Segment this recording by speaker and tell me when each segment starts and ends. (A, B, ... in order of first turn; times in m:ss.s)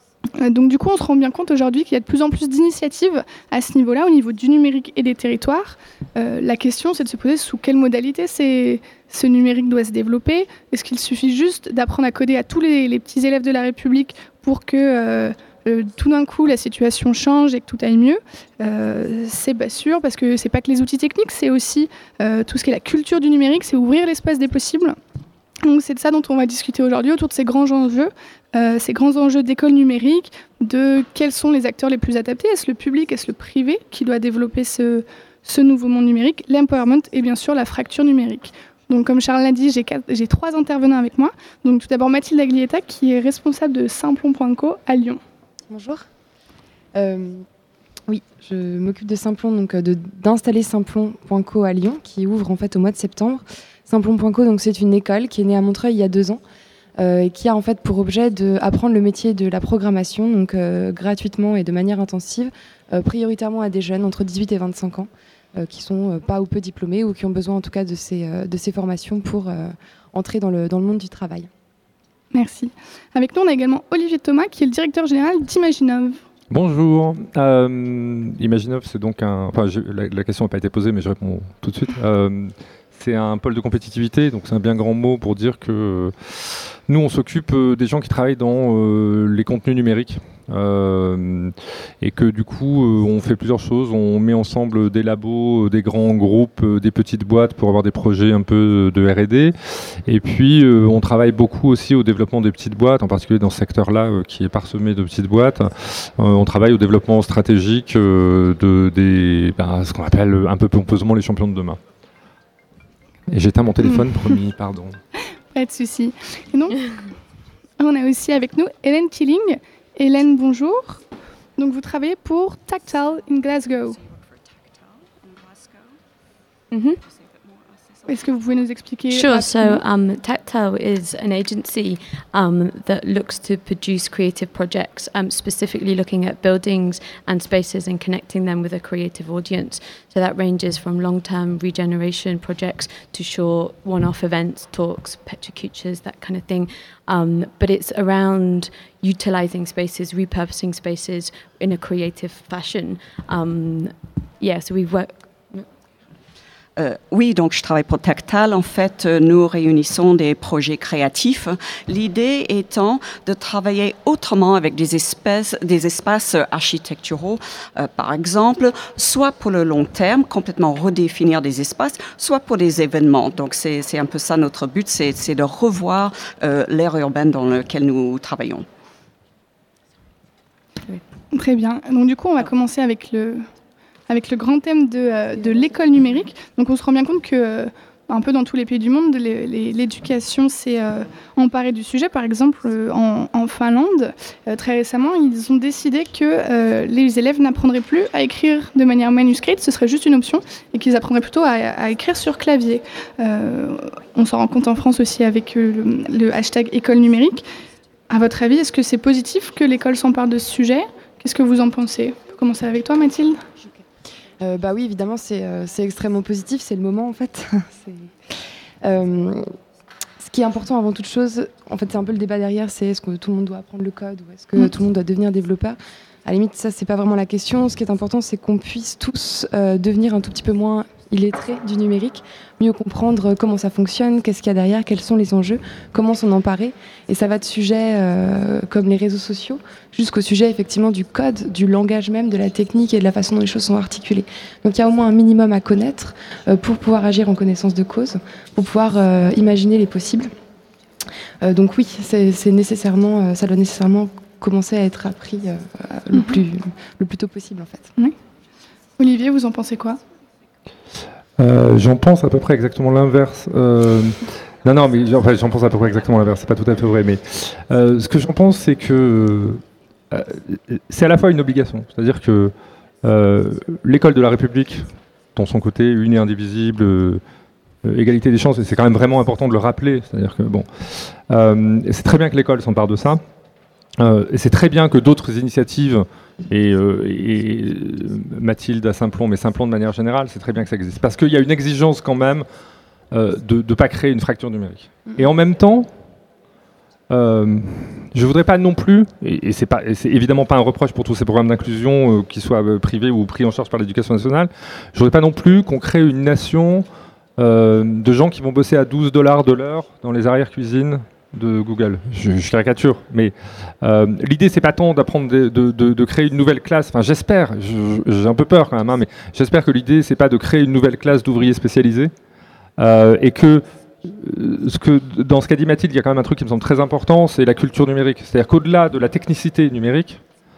0:00.4-0:25.0 A
0:25.6-0:45.2 A
0:45.7-0:46.0 B
0:46.9-0:47.4 B
0:48.1-0:56.4 B
0:57.0-1:11.5 B
1:12.3-1:16.2 A
1:16.5-1:39.5 C
1:40.0-1:51.8 C
1:53.3-1:55.0 C
1:55.5-1:56.9 A
1:57.8-2:01.0 A
2:01.6-2:04.1 A
2:06.7-2:07.0 D
2:08.0-2:09.8 A
2:09.1-2:35.7 D
2:36.8-2:58.6 E
3:01.3-3:03.5 A
3:04.1-3:27.4 A
3:28.1-3:33.4 A
3:34.4-3:38.1 B
3:38.8-3:39.5 B
3:40.2-4:10.3 B
4:11.4-4:17.9 B
4:16.1-4:16.4 A
4:19.0-4:20.0 A
4:21.4-4:37.2 C
4:37.8-4:40.7 C
4:41.3-4:43.2 C
4:44.0-4:52.4 C
4:53.1-4:55.9 C
4:57.1-5:06.8 C
5:07.4-5:22.1 C
5:22.8-5:30.2 C